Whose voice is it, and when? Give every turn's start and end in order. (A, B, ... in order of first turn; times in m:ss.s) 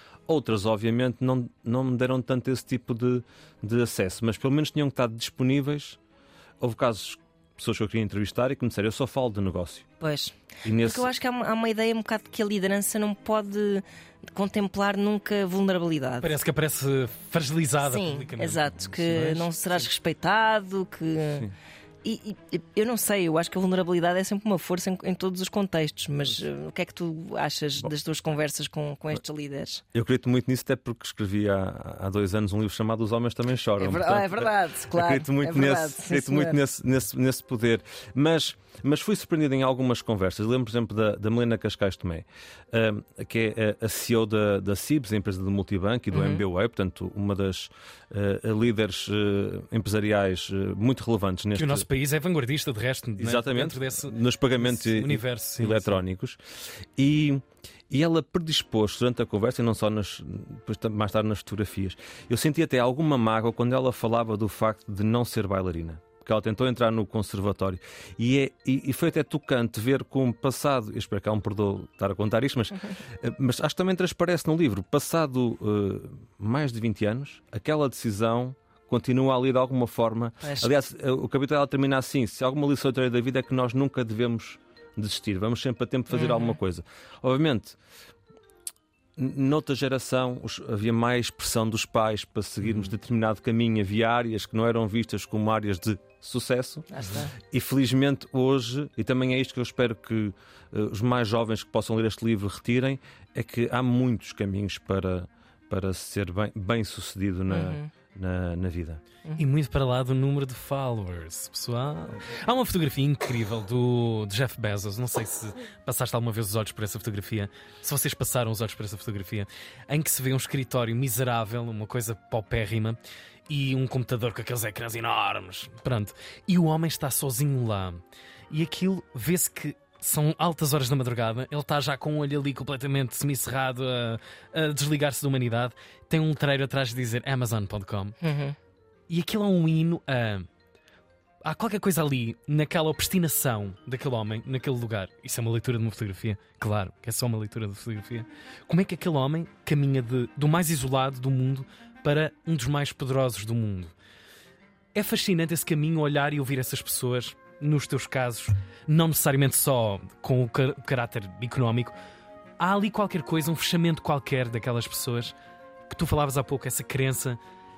0:00.3-0:06.0 A
0:06.6-0:09.9 A
0:10.0-0:16.3 B
0:10.6-0:11.1 A
0:16.2-0:19.8 C
0:17.8-0:21.5 B
0:22.0-0:29.8 B
0:29.9-0:51.8 A
0:33.8-0:36.6 B
0:46.1-0:46.4 B
0:51.5-0:56.0 C
0:53.2-0:56.4 A
0:57.0-1:27.8 A
1:20.4-1:20.7 B
1:26.1-1:26.6 B
1:29.2-1:36.9 A
1:32.6-1:32.9 C
1:36.9-1:37.3 B
1:37.4-1:49.0 A
1:47.5-1:47.9 B
1:49.4-2:18.2 C
2:18.2-2:18.6 B
2:19.1-2:20.5 C
2:21.4-2:33.9 C
2:34.9-2:41.9 C
2:42.6-2:45.3 C
2:45.9-2:47.4 C